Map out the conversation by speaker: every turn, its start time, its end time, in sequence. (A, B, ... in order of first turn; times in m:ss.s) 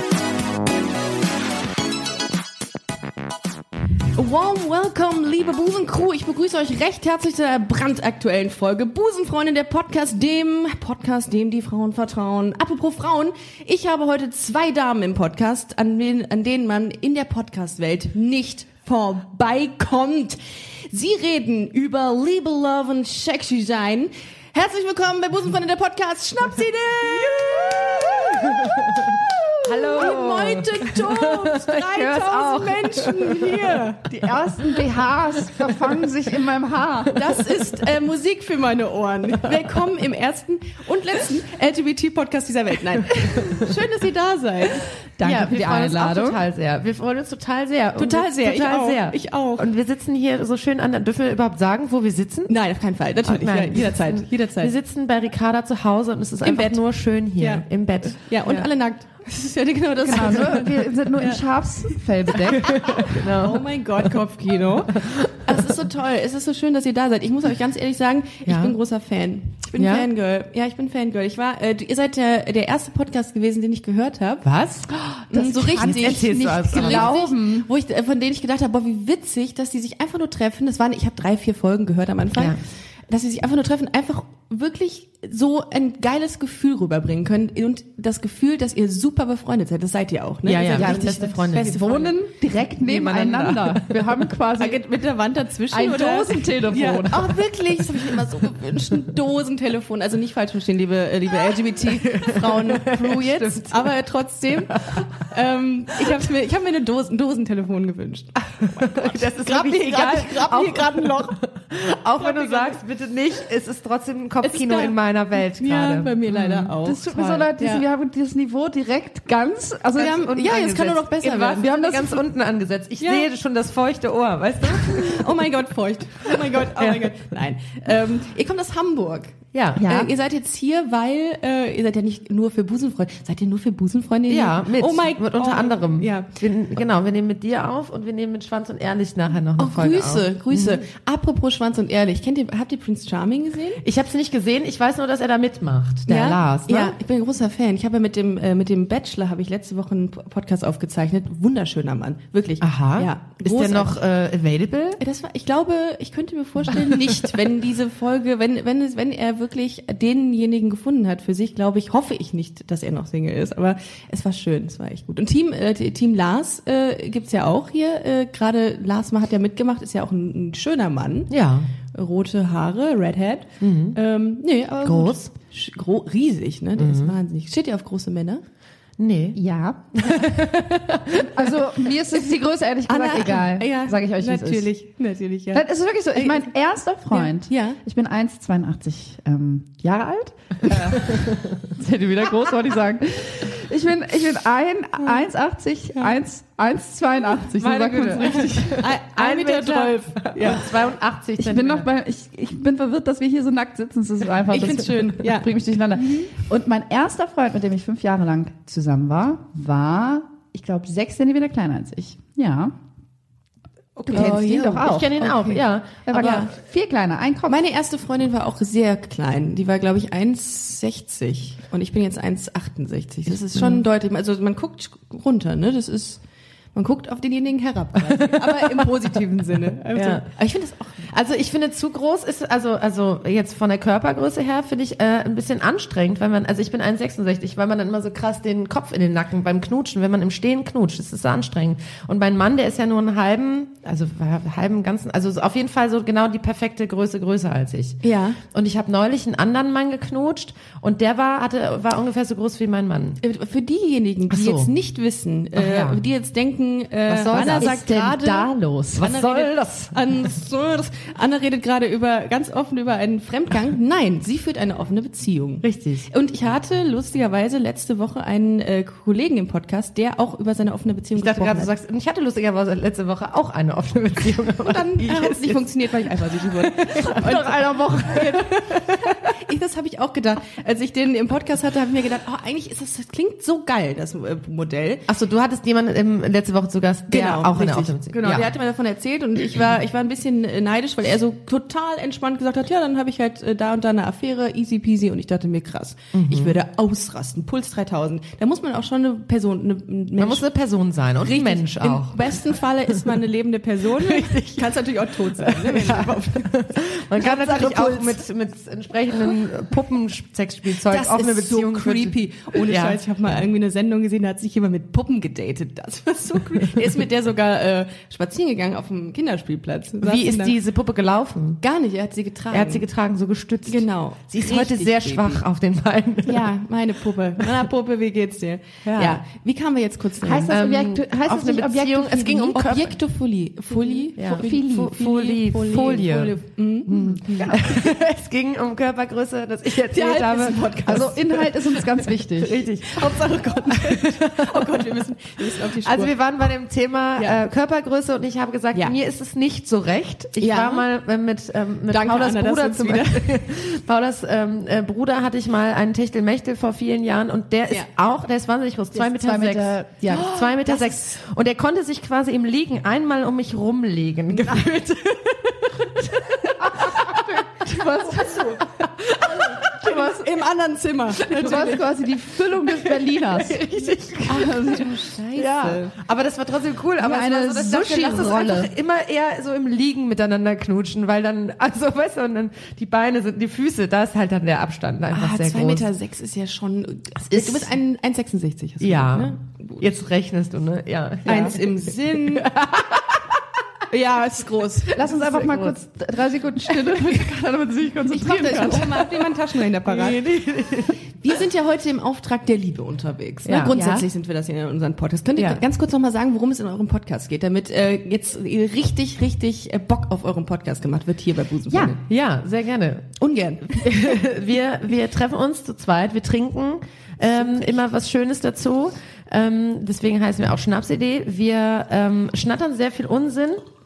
0:04.1-0:34.1 A
0:27.4-0:28.0 B
0:28.8-0:29.1 B
0:29.6-0:33.6 B
0:34.1-0:37.3 C
0:37.1-0:44.9 A
0:45.2-0:46.4 C
0:45.2-0:52.5 B
0:48.0-0:49.7 A
0:52.5-0:54.7 A
0:53.2-0:58.7 B
0:56.4-0:56.8 A
0:57.4-1:01.4 A
1:00.0-1:03.0 C
1:02.4-1:32.2 A
1:02.5-1:04.1 B
1:05.0-1:05.6 B
1:08.4-1:08.8 B
1:09.8-1:10.1 B
1:14.4-1:14.9 B
1:15.3-1:17.7 C
1:15.8-1:17.2 B
1:30.4-1:31.8 B
1:30.8-1:34.9 C
1:32.8-1:34.1 B
1:34.6-1:51.4 A
1:35.7-1:37.4 C
1:41.8-1:43.9 B
1:44.7-1:45.2 B
1:48.6-1:57.5 B
1:52.2-1:52.8 A
1:54.4-1:57.8 A
1:56.8-2:00.6 C
2:00.0-2:02.2 A
2:00.1-2:05.3 B
2:03.0-2:03.3 A
2:04.6-2:16.3 A
2:06.3-2:07.1 B
2:09.5-2:09.8 B
2:09.8-2:10.1 C
2:14.3-2:20.8 B
2:19.6-2:23.8 A
2:23.8-2:27.0 B
2:26.1-2:34.0 A
2:32.6-2:35.0 B
2:35.0-2:51.3 A
2:51.3-2:51.7 B
2:51.9-2:58.4 A
2:53.6-2:54.0 B
2:54.8-2:55.2 B
2:56.8-2:57.1 B
2:59.0-2:59.4 B
2:59.4-3:00.3 C
3:00.0-3:01.3 B
3:01.2-3:04.7 C
3:02.9-3:06.5 A
3:05.5-3:18.8 C
3:07.1-3:07.8 A
3:17.6-3:21.9 B
3:18.8-3:20.7 A
3:21.4-3:32.7 C
3:24.5-3:25.5 A
3:34.0-3:34.3 B
3:34.1-3:35.2 C
3:34.1-3:36.5 A
3:34.8-3:36.5 B
3:36.1-3:37.6 C
3:37.5-3:46.2 A
3:43.5-3:43.8 B
3:46.7-3:51.1 A
3:48.0-3:48.5 B
3:49.9-3:50.2 B
3:51.1-4:08.0 B
4:08.0-4:08.4 A
4:08.5-4:13.2 B
4:13.2-4:31.7 A
4:14.3-4:14.7 B
4:15.6-4:16.0 B
4:17.1-4:17.7 B
4:17.3-4:19.3 C
4:19.0-4:20.3 B
4:25.6-4:26.1 B
4:31.2-4:35.6 B
4:34.6-4:45.1 A
4:36.8-4:38.1 B
4:37.3-4:38.3 C
4:45.1-4:48.5 B
4:47.1-5:00.5 A
4:56.1-4:56.6 B
5:00.2-5:02.4 B
5:01.2-5:06.6 A
5:04.0-5:04.7 B
5:05.4-5:13.0 B
5:07.2-5:08.2 A
5:10.6-5:20.6 A
5:20.0-5:21.6 B
5:21.6-5:22.8 A
5:22.5-5:26.5 B
5:23.7-5:25.4 A
5:26.3-5:30.6 A
5:28.8-5:29.2 B
5:30.2-5:32.8 C
5:30.5-5:33.0 B
5:32.6-5:37.6 A
5:33.8-5:35.0 C
5:34.2-5:41.1 B
5:37.0-5:37.6 C
5:39.7-5:42.1 A
5:40.8-5:42.6 C
5:42.4-5:44.9 B
5:42.9-5:46.2 A
5:45.6-6:04.8 B
5:47.2-5:47.5 A
5:50.4-5:50.9 A
5:51.9-5:53.4 A
5:58.9-6:00.9 C
6:00.1-6:01.0 A
6:04.3-6:12.0 A
6:06.6-6:08.6 C
6:09.2-6:10.3 C
6:11.2-6:15.8 C
6:12.5-6:16.0 A
6:16.0-6:25.9 B
6:17.0-6:18.7 C
6:25.1-6:29.9 A
6:27.2-6:27.7 B
6:28.8-6:33.2 B
6:31.2-6:32.6 A
6:31.3-6:31.6 C
6:33.9-6:35.2 A
6:34.9-6:39.2 C
6:35.1-6:35.7 B
6:36.9-6:37.2 A
6:38.1-6:40.2 A
6:39.9-6:41.0 B
6:41.2-6:52.0 A
6:43.4-6:43.8 B
6:43.7-6:44.1 C
6:52.0-6:53.1 B
6:53.2-6:54.2 A
6:53.7-7:03.6 B
6:57.2-6:57.8 A